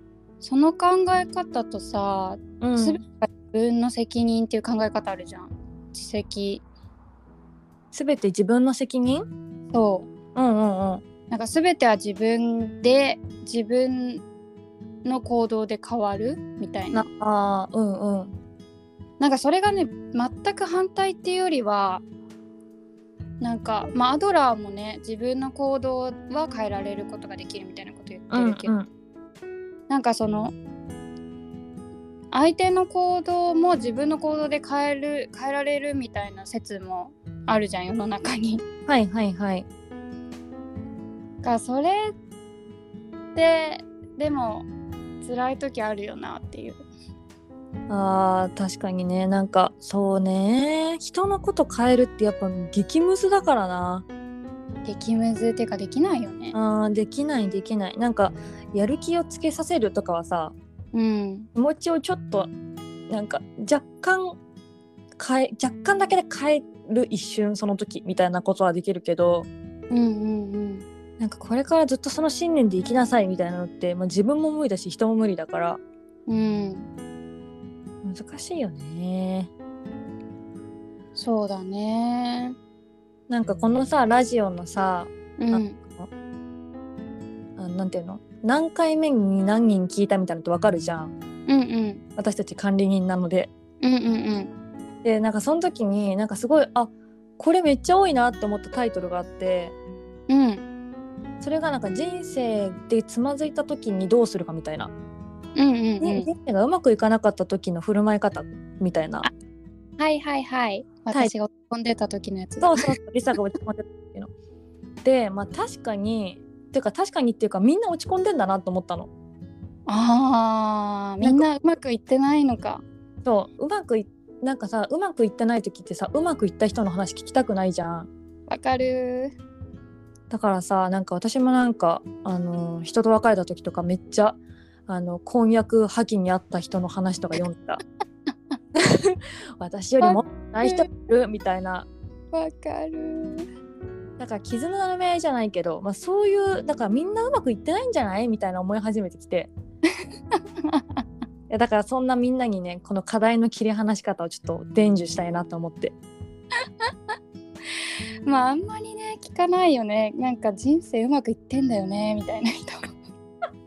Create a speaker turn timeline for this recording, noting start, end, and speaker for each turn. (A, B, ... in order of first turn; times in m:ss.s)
0:00.4-0:06.6 A
0:02.6-0:03.0 B
0:07.9-0:09.2 B
0:09.7-0:10.1 A
0:10.3-0:11.0 B
0:11.3-0:14.2 A
0:15.0-0:17.0 A
0:16.9-0:18.3 B
0:19.2-0:22.0 A
0:23.4-0:28.7 A
0:28.3-0:28.9 B
0:29.9-0:30.5 A
0:32.3-0:38.6 A
0:38.9-0:39.6 B
0:41.4-0:42.1 A
0:43.3-0:44.7 A
0:45.2-0:46.8 A
0:47.9-0:54.0 B
0:54.8-0:56.6 A
0:56.5-1:00.5 B
1:00.9-1:01.5 A
1:01.5-1:02.5 B
1:03.1-1:04.4 B
1:05.2-1:09.5 B
1:09.9-1:10.8 A
1:11.2-1:15.8 B
1:16.3-1:16.9 A
1:18.0-1:19.5 B
1:21.1-1:22.6 A
1:23.3-1:26.1 B
1:25.4-1:25.8 A
1:27.6-1:31.1 B
1:31.5-1:32.0 A
1:32.2-1:33.5 B
1:33.8-1:34.5 A
1:35.0-1:39.7 B
1:40.3-1:40.6 A
1:41.4-1:44.9 B
1:45.6-1:46.3 A
1:46.0-1:49.3 B
1:50.0-1:52.9 A
1:52.6-1:54.3 B
1:55.0-1:59.1 B
1:59.9-2:02.8 A
2:03.2-2:08.1 B
2:08.5-2:09.3 A
2:10.3-2:17.8 B
2:18.7-2:21.9 B
2:20.0-2:20.9 A
2:22.3-2:23.5 A
2:24.2-2:29.5 B
2:30.4-2:31.0 A
2:31.5-2:35.9 B
2:38.2-2:43.0 A